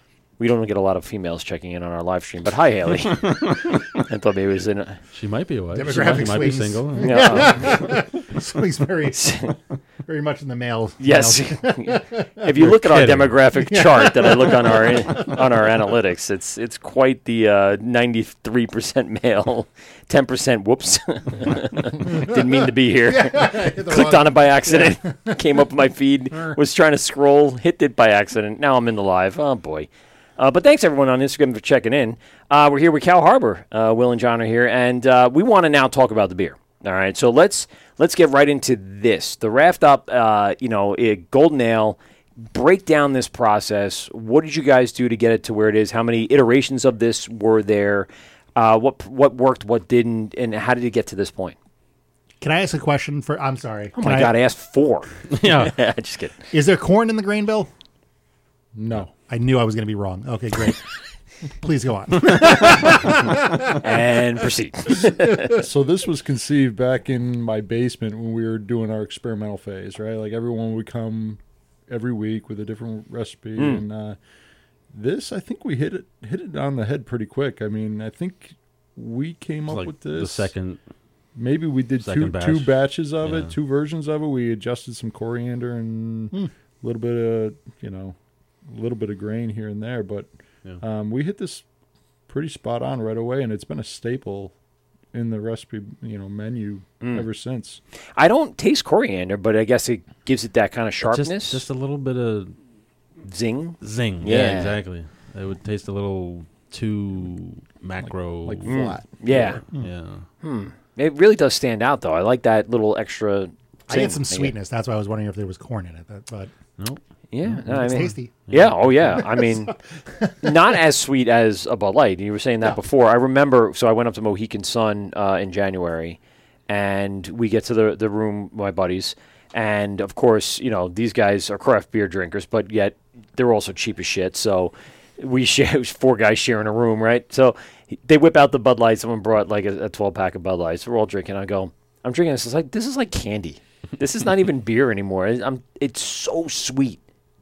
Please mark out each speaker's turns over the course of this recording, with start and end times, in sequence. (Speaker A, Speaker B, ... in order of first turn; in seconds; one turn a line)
Speaker A: 0.4-5.0
Speaker B: 3.0-4.0
Speaker B: 5.1-7.9
Speaker C: 5.7-12.5
Speaker A: 7.0-7.9
Speaker A: 9.1-9.6
Speaker A: 11.0-42.0
Speaker B: 12.6-13.4
Speaker C: 13.6-15.7
Speaker C: 22.1-22.4
Speaker C: 23.1-25.4
Speaker A: 42.5-51.6
Speaker C: 52.4-54.4
Speaker A: 54.0-56.4
Speaker B: 55.3-55.7
Speaker C: 56.5-57.7
Speaker D: 58.8-59.1
Speaker C: 59.1-60.9
Speaker C: 61.6-63.7
Speaker A: 63.8-65.6
Speaker D: 65.5-74.2
Speaker A: 73.6-73.8
Speaker D: 74.9-80.5
Speaker B: 79.7-80.8
Speaker D: 81.3-88.2
Speaker B: 82.0-83.5
Speaker D: 88.7-91.6
Speaker D: 92.3-94.5
Speaker D: 95.1-97.8
Speaker A: 97.0-97.3
Speaker A: 98.2-101.6
Speaker B: 101.0-102.5
Speaker A: 103.2-104.8
Speaker B: 103.8-110.2
Speaker D: 108.0-109.6
Speaker A: 108.7-109.6
Speaker A: 110.4-114.5
Speaker C: 113.9-116.5
Speaker B: 116.8-119.2
Speaker A: 117.3-119.7
Speaker C: 117.7-118.3
Speaker C: 119.0-120.6
Speaker A: 120.4-147.0